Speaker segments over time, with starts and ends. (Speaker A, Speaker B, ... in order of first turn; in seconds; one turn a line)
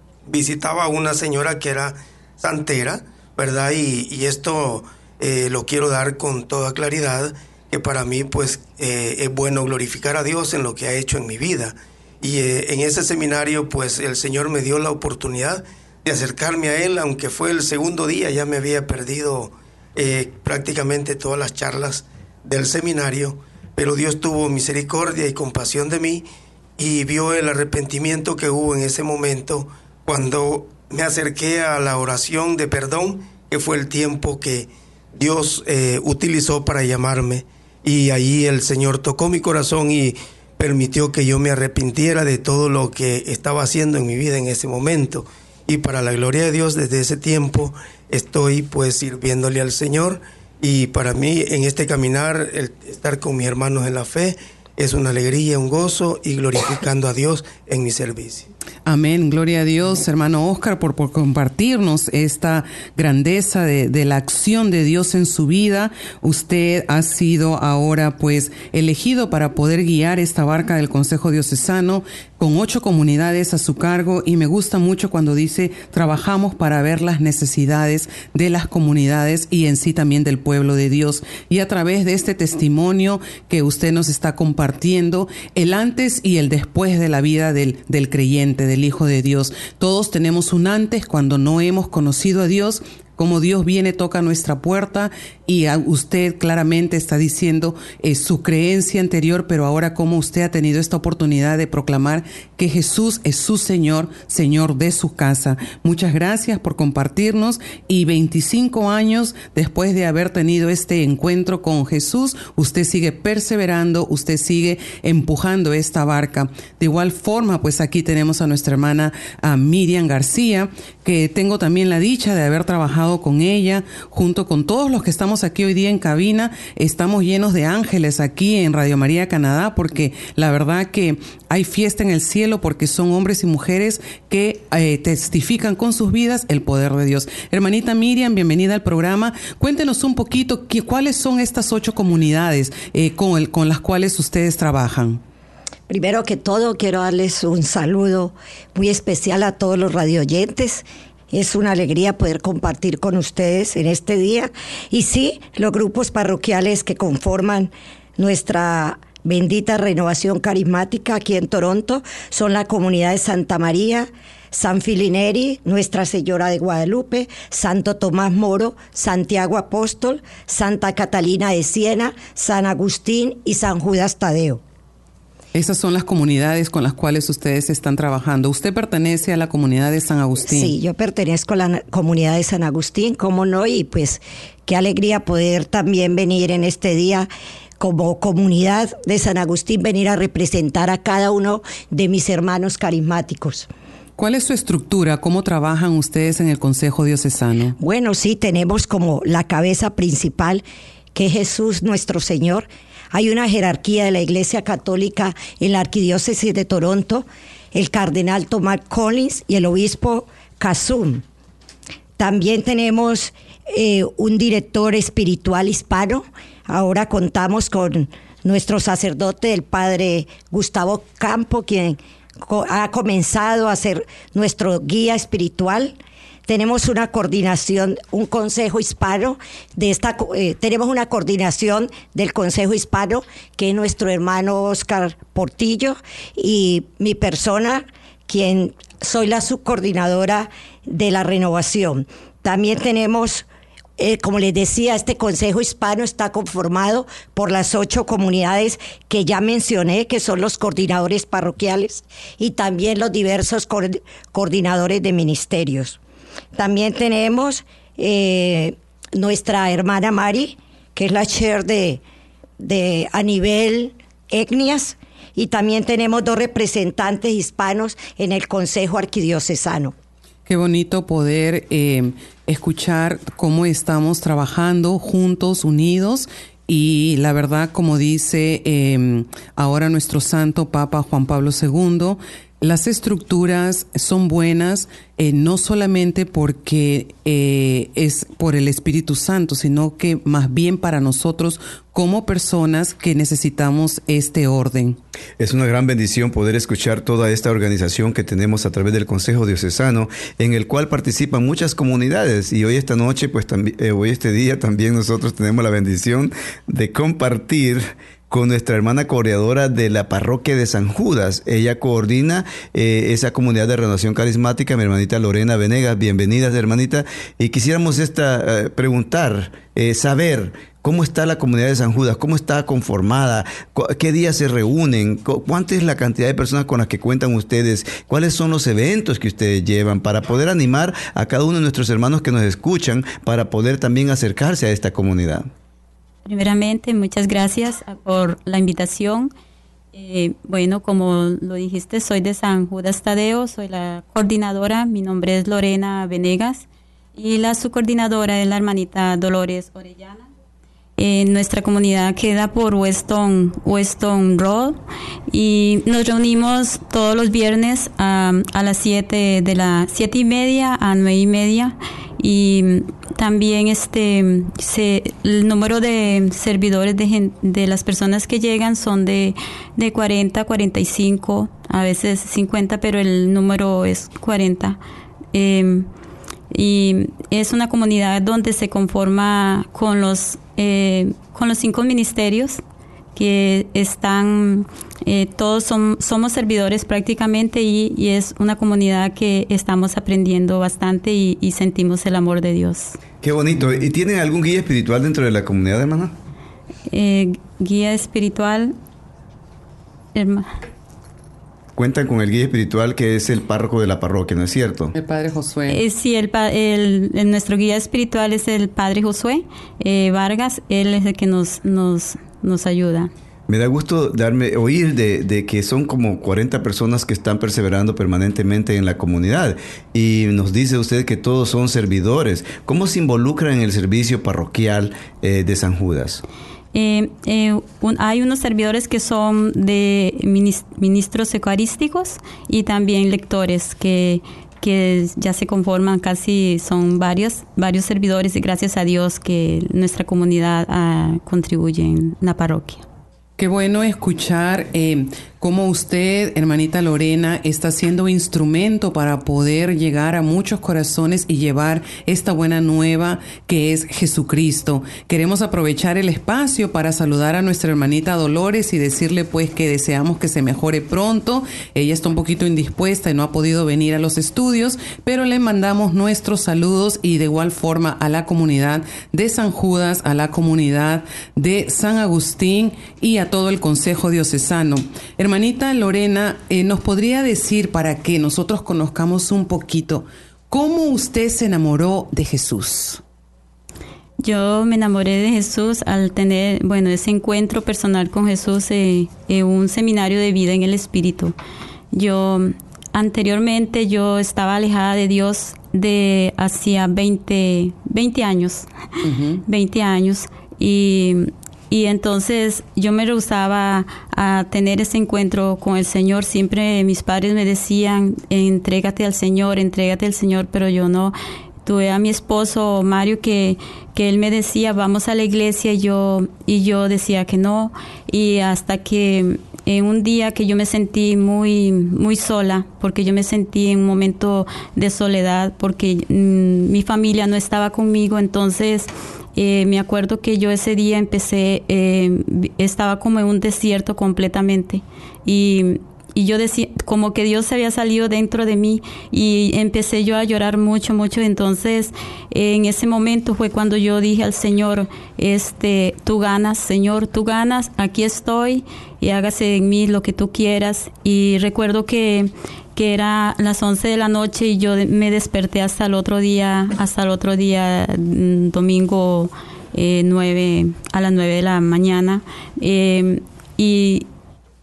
Speaker A: 0.3-26.2
Speaker A: 26.8-58.5
Speaker B: 58.9-145.2
Speaker C: 145.9-174.6
Speaker B: 175.5-180.8
Speaker C: 180.4-187.3
Speaker C: 187.8-193.7
Speaker B: 194.2-197.8
Speaker C: 197.8-211.2
Speaker C: 212.2-226.0
Speaker C: 226.5-243.4
Speaker C: 244.0-256.0
Speaker C: 256.6-262.0
Speaker C: 262.6-269.9
Speaker B: 270.5-295.0
Speaker D: 295.4-335.5
Speaker E: 336.2-339.3
Speaker E: 339.9-350.3
Speaker E: 351.0-354.8
Speaker E: 355.3-374.8
Speaker E: 375.3-375.9
Speaker E: 376.5-382.6
Speaker E: 383.1-393.0
Speaker D: 393.2-396.1
Speaker E: 396.9-398.7
Speaker E: 400.1-400.5
Speaker D: 401.8-404.9
Speaker B: 404.9-405.8
Speaker E: 405.7-413.1
Speaker D: 413.5-426.2
Speaker E: 426.7-442.8
Speaker B: 443.4-483.0
Speaker E: 484.2-491.4
Speaker E: 491.9-498.7
Speaker B: 499.0-499.4
Speaker E: 499.5-564.1